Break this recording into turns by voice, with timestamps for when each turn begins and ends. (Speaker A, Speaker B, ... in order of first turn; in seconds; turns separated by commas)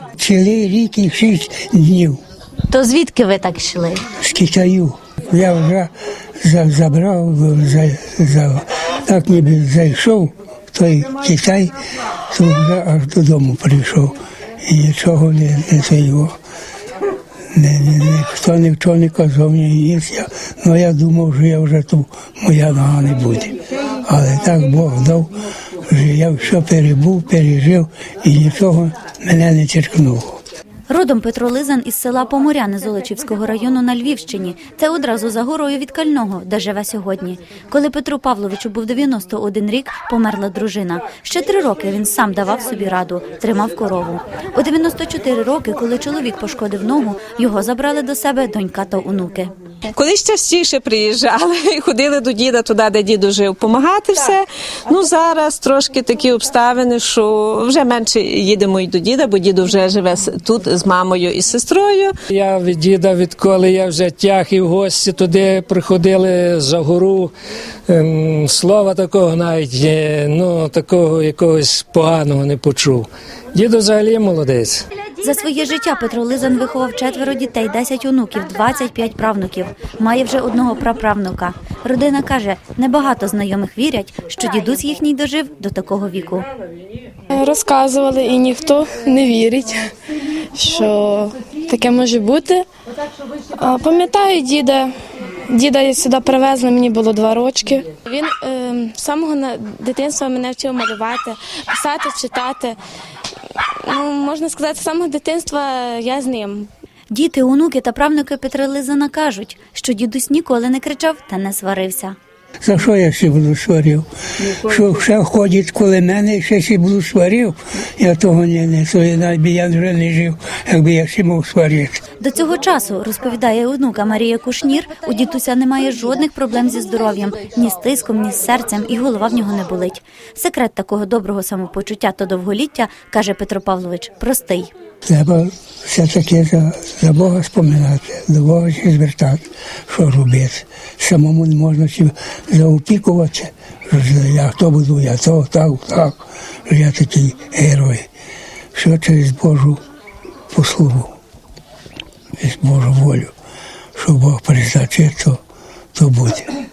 Speaker A: 0.2-2.2, Speaker B: 2.7-4.0, Speaker A: 4.1-5.9, Speaker A: 6.4-11.8, Speaker A: 12.3-16.4, Speaker A: 17.5-30.4, Speaker B: 30.9-49.5, Speaker C: 49.9-62.1, Speaker D: 62.3-67.3, Speaker D: 67.9-74.8, Speaker B: 75.2-86.5, Speaker E: 87.3-89.9, Speaker E: 90.5-92.6, Speaker E: 93.6-94.9, Speaker E: 95.5-102.8, Speaker E: 103.5-106.7, Speaker B: 107.1-112.2, Speaker A: 112.6-122.0, Speaker B: 122.2-134.7, Speaker A: 135.1-148.1, Speaker A: 148.7-149.8, Speaker A: 150.5-151.1, Speaker A: 152.4-153.3, Speaker A: 153.9-155.4, Speaker A: 155.9-156.5